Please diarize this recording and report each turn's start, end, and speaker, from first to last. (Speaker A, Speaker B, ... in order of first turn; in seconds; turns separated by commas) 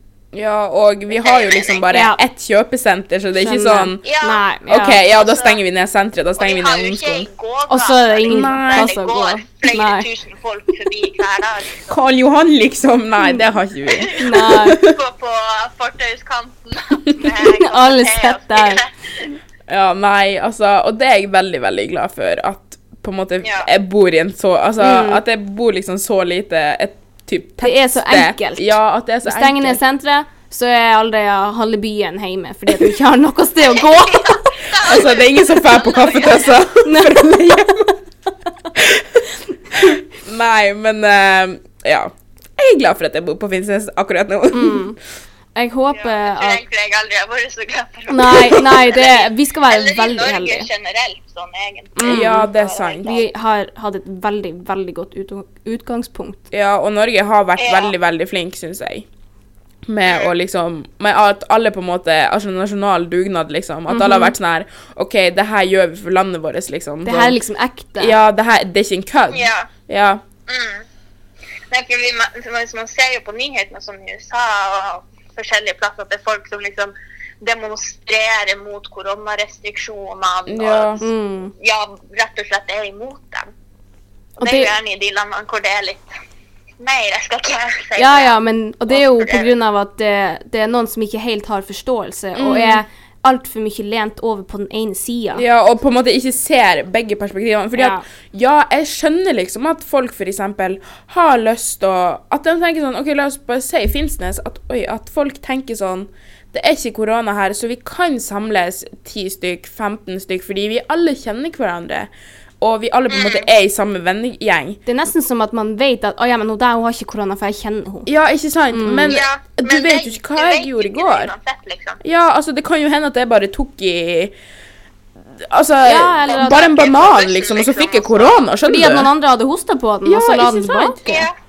Speaker A: 0.3-4.1, Speaker B: 1.1-1.8, Speaker C: 1.9-2.2, Speaker C: 3.4-5.0, Speaker B: 4.0-4.4, Speaker A: 4.7-7.3, Speaker B: 5.0-5.6, Speaker B: 6.4-12.0, Speaker C: 7.7-10.1, Speaker A: 8.3-9.0, Speaker A: 11.9-15.0, Speaker B: 13.9-19.3, Speaker C: 14.1-14.8, Speaker C: 17.2-18.8, Speaker A: 19.7-29.8, Speaker B: 23.4-23.7, Speaker C: 24.8-25.2, Speaker C: 27.6-34.5, Speaker B: 33.7-36.7, Speaker A: 34.7-37.9, Speaker C: 36.8-37.9, Speaker A: 38.7-44.9, Speaker C: 44.5-45.0, Speaker C: 45.5-46.6, Speaker B: 45.9-53.3, Speaker C: 48.1-50.7, Speaker C: 51.9-52.5, Speaker A: 52.0-53.1, Speaker C: 53.0-56.4, Speaker A: 56.5-59.0, Speaker B: 57.6-57.9, Speaker A: 59.9-67.4, Speaker B: 60.0-60.3, Speaker C: 63.9-64.3, Speaker C: 67.0-68.2, Speaker A: 68.0-70.2, Speaker B: 69.3-69.7, Speaker B: 70.5-70.8, Speaker B: 71.7-81.0, Speaker A: 80.5-81.0, Speaker C: 81.0-81.5, Speaker B: 81.6-83.5, Speaker B: 84.4-86.1, Speaker C: 84.4-84.7, Speaker B: 86.8-88.4, Speaker C: 88.0-95.4, Speaker B: 88.9-89.5, Speaker A: 92.3-92.8, Speaker A: 95.3-112.1, Speaker C: 97.8-98.0, Speaker A: 112.6-114.8, Speaker B: 113.1-113.5, Speaker C: 114.8-118.1, Speaker A: 118.0-121.3, Speaker C: 118.7-119.2, Speaker B: 119.1-122.0, Speaker A: 122.0-124.3, Speaker A: 125.4-129.1, Speaker C: 125.8-126.7, Speaker B: 126.3-128.5, Speaker C: 128.6-131.3, Speaker A: 130.1-131.0, Speaker B: 131.0-131.3